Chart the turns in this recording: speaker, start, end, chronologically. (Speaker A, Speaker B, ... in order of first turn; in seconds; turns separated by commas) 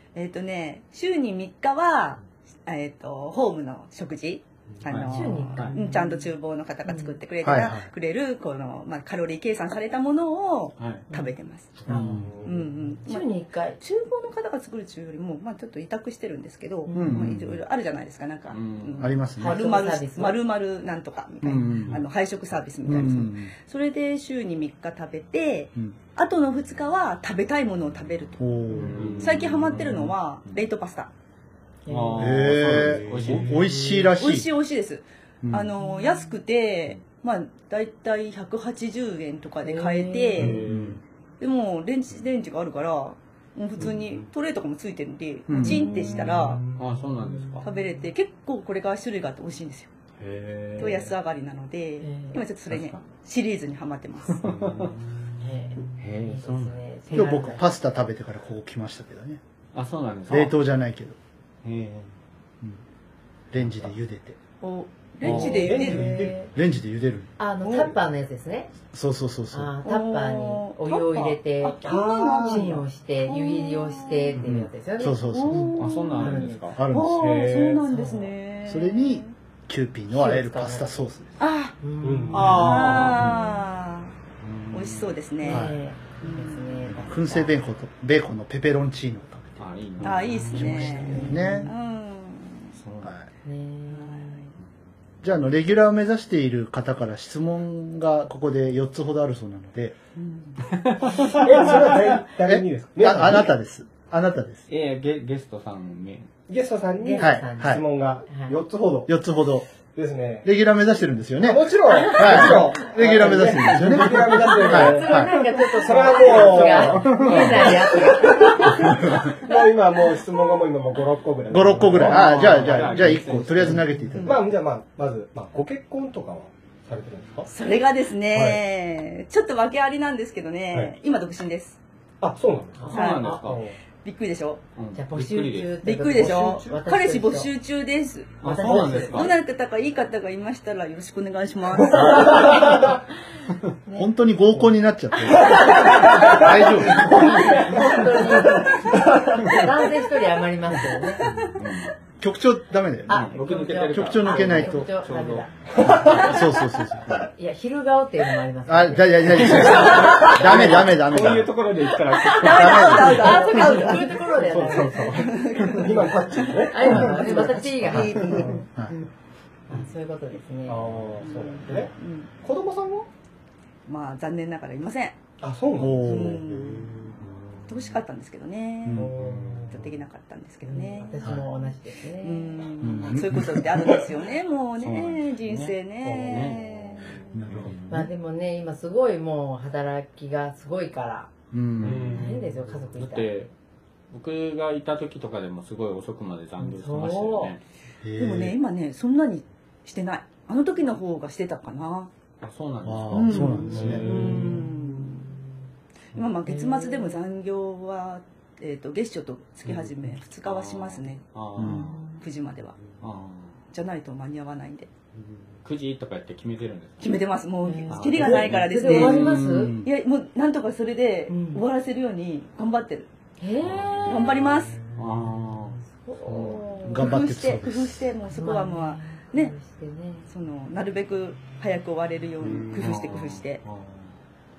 Speaker A: 0.1-11.7, Speaker B: 4.8-5.8, Speaker C: 5.0-6.3, Speaker C: 6.8-7.2, Speaker D: 7.4-7.9, Speaker B: 10.8-11.1, Speaker E: 11.8-12.8, Speaker C: 11.9-12.2, Speaker D: 11.9-12.3, Speaker A: 12.4-28.4, Speaker C: 13.0-13.8, Speaker C: 16.9-17.2, Speaker D: 16.9-17.6, Speaker B: 17.0-17.4, Speaker B: 18.5-19.1, Speaker D: 19.0-19.6, Speaker C: 19.4-20.4, Speaker D: 21.4-22.0, Speaker B: 21.6-22.0, Speaker D: 22.8-23.5, Speaker D: 28.4-29.1, Speaker B: 28.7-30.6, Speaker E: 28.8-29.4, Speaker A: 29.1-31.1, Speaker C: 31.9-32.6, Speaker B: 31.9-33.8, Speaker D: 32.2-34.5, Speaker E: 32.6-34.1, Speaker A: 34.1-40.6, Speaker D: 35.4-35.7, Speaker C: 39.6-40.6, Speaker B: 40.4-41.0, Speaker E: 40.4-40.9, Speaker D: 40.6-41.0, Speaker A: 41.4-46.7, Speaker D: 45.5-45.8, Speaker C: 45.6-46.2, Speaker E: 46.4-46.8, Speaker B: 46.6-47.6, Speaker C: 47.4-47.8, Speaker A: 47.6-49.9, Speaker B: 50.2-51.1, Speaker A: 50.8-54.5, Speaker C: 52.0-52.4, Speaker B: 52.7-53.1, Speaker B: 54.3-55.0, Speaker E: 54.5-55.0, Speaker C: 55.4-57.7, Speaker B: 56.0-56.8, Speaker D: 57.1-59.4, Speaker B: 59.7-60.5, Speaker D: 60.3-61.2, Speaker B: 61.6-62.1, Speaker D: 63.5-64.4, Speaker A: 64.6-66.3, Speaker B: 65.2-66.0, Speaker E: 65.2-66.4, Speaker C: 65.3-66.5, Speaker D: 66.0-67.3, Speaker C: 67.4-68.7, Speaker A: 67.6-67.9, Speaker D: 68.9-69.7, Speaker C: 69.5-76.8, Speaker A: 69.8-74.4, Speaker E: 71.8-72.8, Speaker B: 74.4-74.7, Speaker D: 75.0-75.8, Speaker A: 75.3-79.3, Speaker B: 75.8-76.8, Speaker D: 76.8-77.4, Speaker E: 77.1-77.9, Speaker C: 77.8-78.3, Speaker D: 78.7-81.3, Speaker C: 80.1-81.1, Speaker A: 81.4-81.8, Speaker C: 81.8-82.7, Speaker E: 82.0-83.0, Speaker B: 82.3-83.4, Speaker A: 82.4-84.1, Speaker B: 84.4-85.1, Speaker A: 84.7-86.9, Speaker C: 85.4-87.6, Speaker D: 85.5-85.8, Speaker D: 86.9-91.7, Speaker B: 89.6-91.4, Speaker A: 90.0-92.8, Speaker C: 90.8-91.7, Speaker B: 92.8-93.1, Speaker C: 93.4-94.5, Speaker A: 93.9-94.5, Speaker D: 95.2-99.9, Speaker A: 100.2-100.6, Speaker B: 100.6-101.9, Speaker E: 101.2-103.5, Speaker D: 102.4-104.7, Speaker B: 104.7-106.3, Speaker E: 106.5-109.1, Speaker C: 107.0-108.6, Speaker D: 107.2-107.8, Speaker D: 109.1-109.6, Speaker E: 109.9-110.5, Speaker D: 110.4-115.3, Speaker E: 111.4-127.5, Speaker C: 112.1-112.6, Speaker C: 114.3-119.0, Speaker B: 116.3-117.8, Speaker D: 121.5-124.4, Speaker B: 121.9-123.9, Speaker A: 127.5-131.8, Speaker E: 128.3-128.6, Speaker E: 132.2-133.8, Speaker C: 132.8-133.6, Speaker B: 132.9-133.6, Speaker A: 132.9-133.4, Speaker A: 133.9-134.6, Speaker B: 134.8-135.8, Speaker C: 134.9-137.5, Speaker A: 135.8-142.7, Speaker E: 136.2-136.8, Speaker C: 138.4-139.3, Speaker B: 138.4-139.4, Speaker E: 141.9-142.9, Speaker C: 143.9-144.1, Speaker D: 143.9-147.7, Speaker C: 145.2-151.3, Speaker E: 145.3-149.7, Speaker B: 151.2-151.9, Speaker D: 152.2-154.9, Speaker C: 153.1-156.4, Speaker B: 153.1-155.5, Speaker E: 155.8-156.4, Speaker D: 155.8-157.3, Speaker C: 157.1-160.2, Speaker D: 158.7-161.7, Speaker E: 159.4-160.8, Speaker B: 159.6-163.4, Speaker A: 162.2-166.7, Speaker D: 162.4-163.2, Speaker C: 162.8-165.3, Speaker E: 164.3-168.6, Speaker C: 166.6-168.7, Speaker D: 167.8-168.9, Speaker A: 168.0-168.4, Speaker C: 169.7-170.9, Speaker E: 170.7-173.1, Speaker A: 171.2-172.3, Speaker A: 173.9-175.2, Speaker E: 175.4-177.7, Speaker D: 175.8-176.4, Speaker A: 176.0-177.1, Speaker A: 177.7-179.1, Speaker D: 178.9-179.1, Speaker E: 178.9-179.9, Speaker A: 179.7-181.3, Speaker C: 180.7-182.7, Speaker A: 182.2-187.4, Speaker D: 182.8-183.8, Speaker B: 184.8-187.9, Speaker E: 186.0-187.7, Speaker D: 187.3-188.1, Speaker C: 187.9-191.3, Speaker D: 191.5-192.2, Speaker B: 191.8-192.2, Speaker E: 191.8-192.5, Speaker C: 192.1-193.3, Speaker B: 192.9-193.5, Speaker B: 194.1-197.6, Speaker C: 196.6-197.5, Speaker D: 198.0-198.5, Speaker A: 198.2-202.1, Speaker B: 202.4-204.1, Speaker D: 202.8-204.0, Speaker A: 203.1-205.4, Speaker E: 203.7-204.7, Speaker C: 204.1-204.7, Speaker A: 206.1-212.8, Speaker C: 206.5-207.2, Speaker B: 209.7-211.9, Speaker D: 211.6-211.9, Speaker C: 211.6-212.2, Speaker B: 213.0-213.6, Speaker A: 213.7-214.9, Speaker B: 215.6-217.2, Speaker A: 217.0-223.1, Speaker C: 217.6-219.7, Speaker B: 217.9-219.9, Speaker C: 221.3-221.6, Speaker C: 223.4-225.0, Speaker B: 223.6-224.3, Speaker A: 224.0-224.8, Speaker B: 224.9-226.7, Speaker C: 225.5-227.1, Speaker D: 226.9-228.0, Speaker A: 226.9-229.5, Speaker C: 228.3-230.3, Speaker A: 230.3-233.6, Speaker B: 232.7-234.2